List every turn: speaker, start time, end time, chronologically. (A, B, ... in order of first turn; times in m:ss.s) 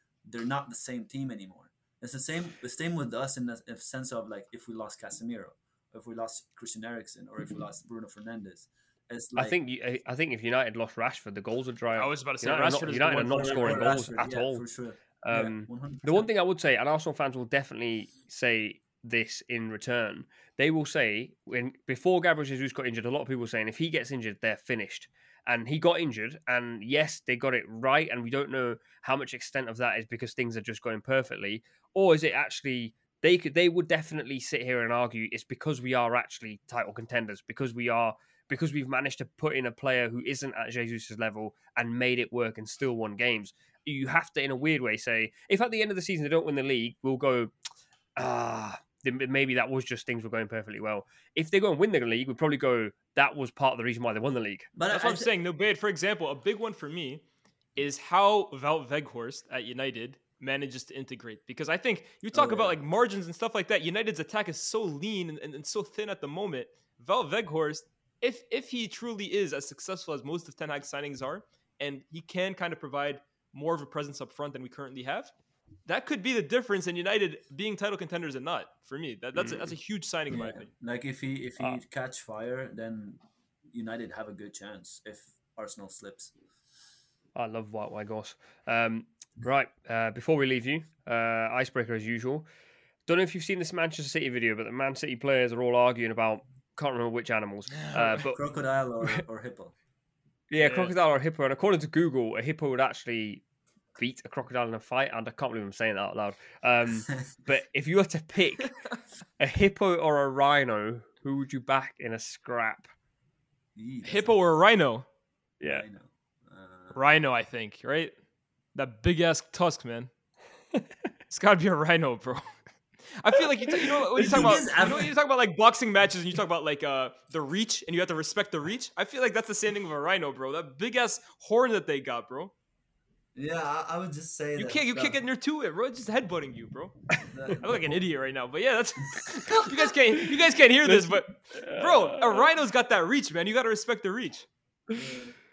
0:00.3-0:09.6 A
0:09.3-0:14.6 B
0:12.0-0:13.9 C
0:13.2-0:16.3 A
0:15.2-0:47.5 B
0:48.2-0:54.7 B
0:54.7-0:55.3 A
0:54.9-0:57.2 C
0:57.8-1:15.3 C
1:02.3-1:02.8 A
1:15.9-1:20.7 C
1:19.4-1:19.7 B
1:20.3-1:26.3 A
1:27.4-1:32.4 B
1:33.1-1:38.4 B
1:37.9-1:39.8 A
1:40.5-1:43.4 B
1:40.6-1:40.9 C
1:44.0-1:48.7 B
1:49.4-1:52.9 B
1:53.8-1:54.4 A
1:54.0-1:55.1 C
1:55.6-1:55.9 B
1:55.7-1:57.0 A
1:56.9-1:58.1 C
1:58.7-2:00.1 C
2:01.3-2:02.6 C
2:03.2-2:12.5 C
2:04.2-2:05.1 A
2:13.3-2:15.2 A
2:14.6-2:24.5 C
2:17.3-2:18.0 A
2:19.1-2:19.8 A
2:20.8-2:22.5 B
2:24.9-2:25.3 A